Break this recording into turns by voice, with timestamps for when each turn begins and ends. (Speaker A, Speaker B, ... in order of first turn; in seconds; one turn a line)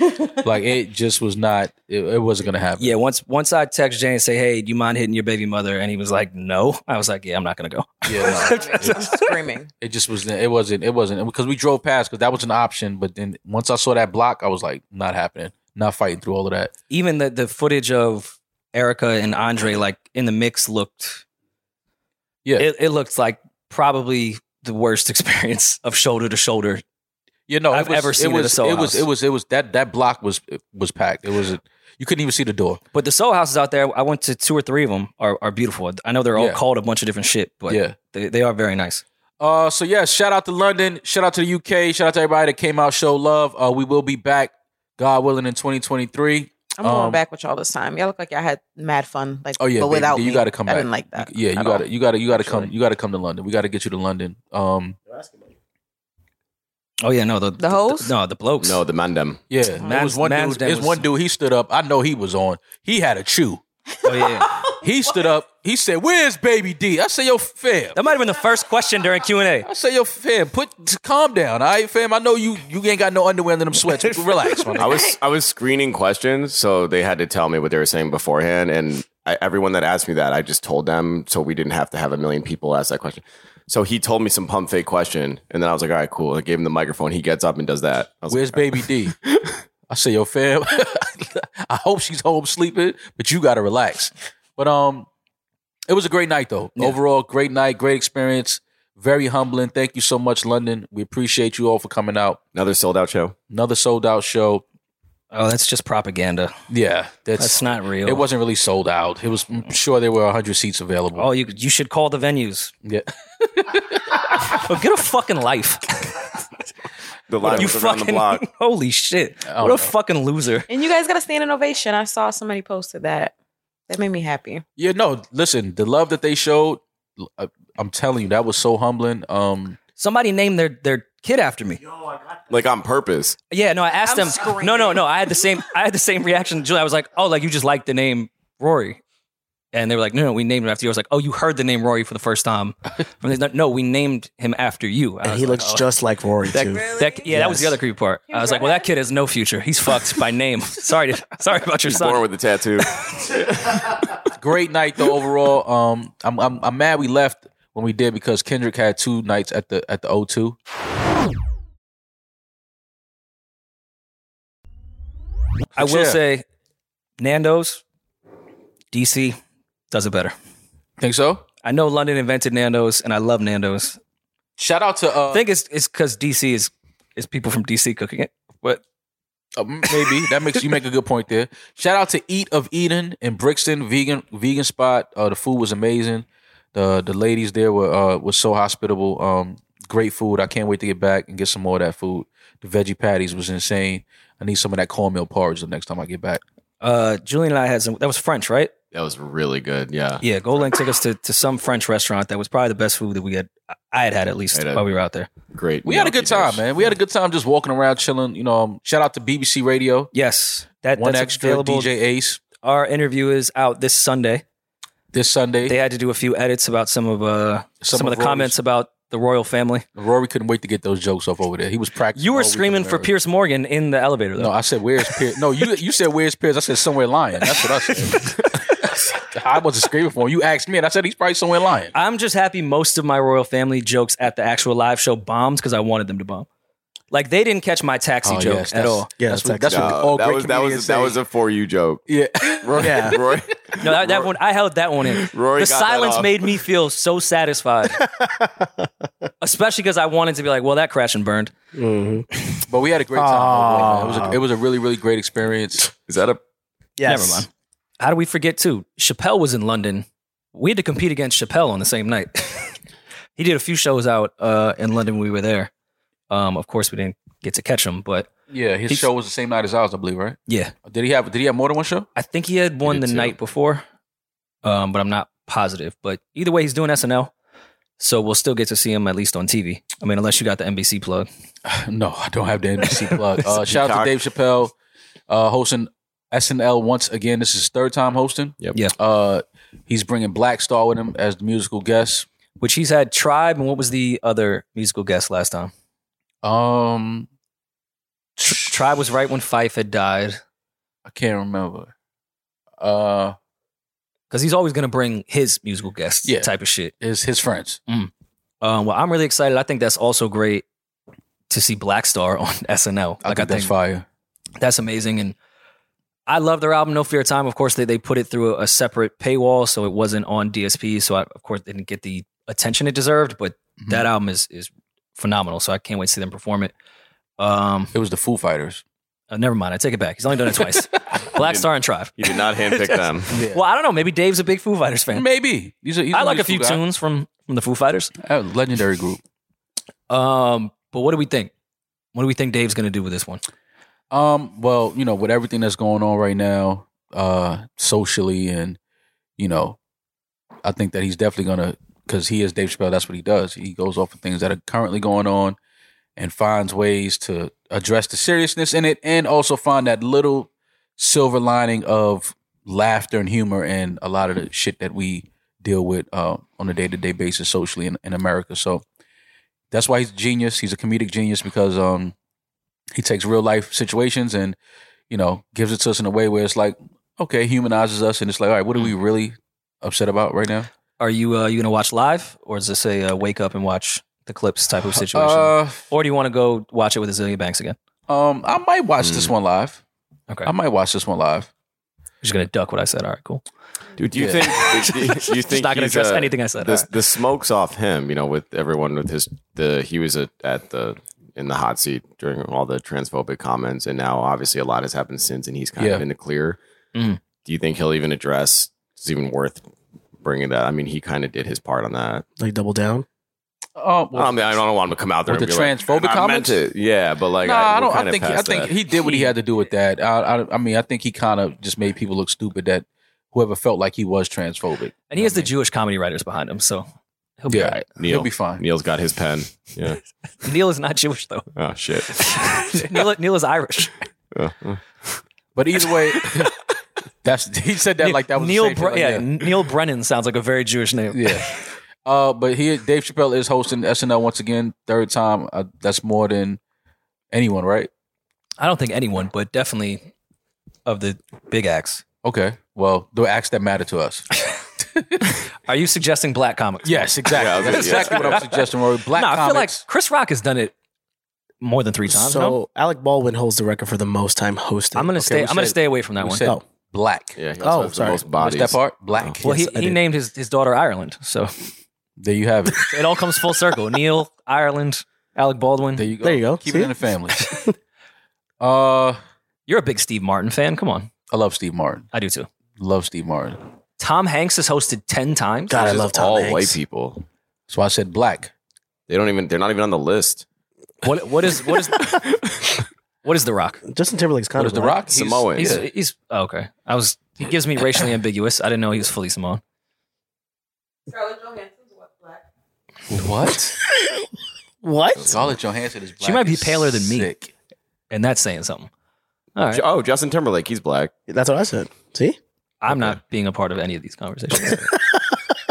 Speaker A: 0.4-2.9
Speaker B: 2.8-9.3
Speaker A: 8.1-9.1
Speaker C: 8.4-9.7
Speaker A: 9.8-16.7
Speaker B: 16.9-21.2
Speaker B: 22.6-26.8
Speaker A: 27.5-32.8
Speaker B: 27.7-29.1
Speaker B: 32.9-39.0
Speaker A: 36.3-36.6
Speaker A: 37.7-38.0
Speaker A: 39.4-47.2
Speaker C: 46.8-51.8
Speaker A: 49.6-55.0
Speaker D: 55.1-55.5
Speaker B: 57.0-58.8
Speaker C: 57.6-58.1
Speaker E: 58.6-59.4
Speaker A: 59.5-63.6
Speaker B: 59.8-61.0
Speaker B: 64.0-64.6
Speaker C: 64.0-64.7
Speaker A: 64.8-68.0
Speaker B: 68.0-69.7
Speaker A: 69.6-75.1
Speaker E: 74.8-89.6
Speaker A: 88.3-89.1
Speaker A: 89.9-95.1
Speaker A: 95.9-102.4
Speaker E: 102.5-103.3
Speaker A: 103.5-104.6
Speaker B: 105.3-106.5
Speaker A: 106.7-111.3
Speaker B: 107.4-108.2
Speaker B: 111.2-112.7
Speaker A: 112.8-114.6
Speaker B: 114.4-116.2
Speaker E: 117.3-118.4
Speaker A: 117.4-117.7
Speaker B: 117.4-120.7
Speaker A: 119.5-119.9
Speaker C: 120.7-123.3
Speaker C: 123.9-124.6
Speaker A: 124.8-129.8
Speaker B: 130.0-131.8
Speaker E: 132.5-133.4
Speaker B: 133.5-139.0
Speaker C: 134.1-135.0
Speaker B: 139.7-145.8
Speaker D: 145.2-147.8
Speaker B: 146.5-152.2
Speaker C: 146.6-147.3
Speaker C: 148.3-148.9
Speaker E: 151.8-154.1
Speaker A: 154.3-160.6
Speaker A: 165.7-166.2
Speaker B: 165.8-166.4
Speaker B: 167.2-167.8
Speaker B: 168.9-169.4
Speaker B: 169.9-170.3
Speaker A: 171.0-171.4
Speaker B: 171.6-174.0
Speaker A: 174.6-175.4
Speaker B: 175.3-178.8
Speaker A: 179.6-196.4
Speaker B: 179.9-180.2
Speaker B: 196.8-198.7
Speaker E: 198.9-200.2
Speaker B: 200.2-205.3
Speaker E: 204.5-204.8
Speaker E: 205.5-206.9
Speaker A: 205.8-210.1
Speaker B: 210.1-211.9
Speaker A: 211.0-212.4
Speaker B: 212.6-214.4
Speaker A: 215.1-215.8
Speaker B: 215.7-219.8
Speaker A: 217.8-218.6
Speaker A: 219.9-223.1
Speaker B: 222.2-224.5
Speaker A: 224.4-231.9
Speaker B: 227.4-228.4
Speaker B: 231.9-236.5
Speaker B: 237.1-239.1
Speaker A: 238.2-241.2
Speaker D: 239.2-239.9
Speaker E: 239.7-242.0
Speaker A: 242.1-243.2
Speaker E: 242.6-244.3
Speaker D: 242.8-243.2
Speaker B: 243.8-248.1
Speaker E: 245.0-246.4
Speaker D: 248.0-248.9
Speaker B: 249.4-251.5
Speaker D: 251.7-252.3
Speaker A: 252.7-255.9
Speaker D: 253.1-254.4
Speaker E: 256.1-256.4
Speaker D: 257.0-257.4
Speaker B: 257.0-257.5
Speaker B: 258.0-262.8
Speaker B: 263.4-265.7
Speaker B: 266.3-268.3
Speaker A: 268.5-272.1
Speaker B: 270.5-270.7
Speaker B: 272.1-273.8
Speaker E: 272.9-273.4
Speaker B: 274.6-277.3
Speaker B: 278.0-281.3
Speaker A: 281.6-284.7
Speaker E: 283.5-284.1
Speaker A: 285.3-292.2
Speaker B: 292.6-295.7
Speaker A: 296.4-297.3
Speaker B: 298.4-300.4
Speaker A: 301.1-301.9
Speaker A: 302.8-303.4
Speaker B: 304.3-306.9
Speaker A: 306.2-307.8
Speaker B: 308.6-310.6
Speaker B: 311.5-313.7
Speaker A: 313.2-314.1
Speaker B: 314.6-315.3
Speaker B: 316.3-326.7
Speaker A: 323.8-324.1
Speaker B: 327.4-327.9
Speaker A: 327.9-328.8
Speaker B: 329.3-335.3
Speaker E: 331.3-333.3
Speaker A: 333.3-333.6
Speaker A: 335.1-336.8
Speaker B: 336.1-338.1
Speaker A: 338.2-339.2
Speaker B: 340.1-341.5
Speaker B: 342.1-343.4
Speaker A: 344.1-348.8
Speaker A: 349.4-349.8
Speaker A: 350.6-355.6
Speaker A: 356.2-368.8
Speaker A: 369.7-372.1
Speaker A: 372.9-374.6
Speaker A: 375.1-380.7
Speaker B: 381.0-387.8
Speaker A: 384.9-385.8
Speaker A: 388.1-389.8
Speaker E: 389.0-389.3
Speaker A: 390.4-391.5
Speaker B: 392.2-393.4
Speaker E: 394.0-406.6
Speaker B: 394.1-396.9
Speaker A: 405.8-406.0
Speaker B: 406.9-407.2
Speaker E: 407.4-409.6
Speaker E: 410.2-412.2
Speaker D: 412.4-413.1
Speaker A: 413.8-414.6
Speaker E: 414.1-418.7
Speaker A: 415.3-416.6
Speaker A: 417.4-425.5
Speaker B: 419.0-419.3
Speaker B: 425.1-426.9
Speaker B: 427.4-427.8
Speaker A: 427.5-428.6
Speaker E: 427.7-430.0
Speaker B: 430.4-431.5
Speaker E: 431.6-433.1
Speaker B: 432.1-434.0
Speaker E: 434.3-435.2
Speaker A: 435.5-436.5
Speaker A: 437.2-439.2
Speaker B: 438.0-441.6
Speaker A: 441.1-446.6
Speaker A: 447.3-447.9
Speaker B: 448.6-450.1
Speaker B: 450.9-452.0
Speaker A: 452.2-454.3
Speaker A: 454.9-455.3
Speaker B: 455.6-460.7
Speaker A: 456.8-459.8
Speaker E: 457.3-458.4
Speaker B: 461.6-462.6
Speaker D: 462.1-465.1
Speaker B: 464.9-466.5
Speaker A: 465.2-467.4
Speaker E: 467.4-469.4
Speaker D: 467.6-468.2
Speaker A: 468.4-470.0
Speaker B: 469.4-471.7
Speaker A: 472.2-472.9
Speaker B: 472.8-476.1
Speaker A: 475.9-477.5
Speaker D: 476.2-476.9
Speaker A: 478.6-479.2
Speaker B: 479.7-481.1
Speaker A: 481.3-482.1
Speaker B: 482.1-482.5
Speaker A: 482.8-483.6
Speaker B: 484.0-485.9
Speaker D: 485.7-486.8
Speaker E: 485.7-487.2
Speaker A: 487.7-488.5
Speaker E: 489.1-490.4
Speaker B: 491.0-492.2
Speaker E: 491.6-492.8
Speaker B: 493.2-493.8
Speaker D: 493.9-495.0
Speaker A: 494.5-495.8
Speaker E: 495.1-495.8
Speaker B: 495.6-499.6
Speaker C: 501.1-502.4
Speaker A: 503.1-503.8
Speaker D: 503.8-504.1
Speaker D: 504.8-505.4
Speaker A: 505.3-507.5
Speaker B: 506.2-507.3
Speaker B: 508.1-508.9
Speaker B: 509.6-509.8
Speaker E: 509.7-511.1
Speaker D: 511.3-512.4
Speaker B: 512.8-514.9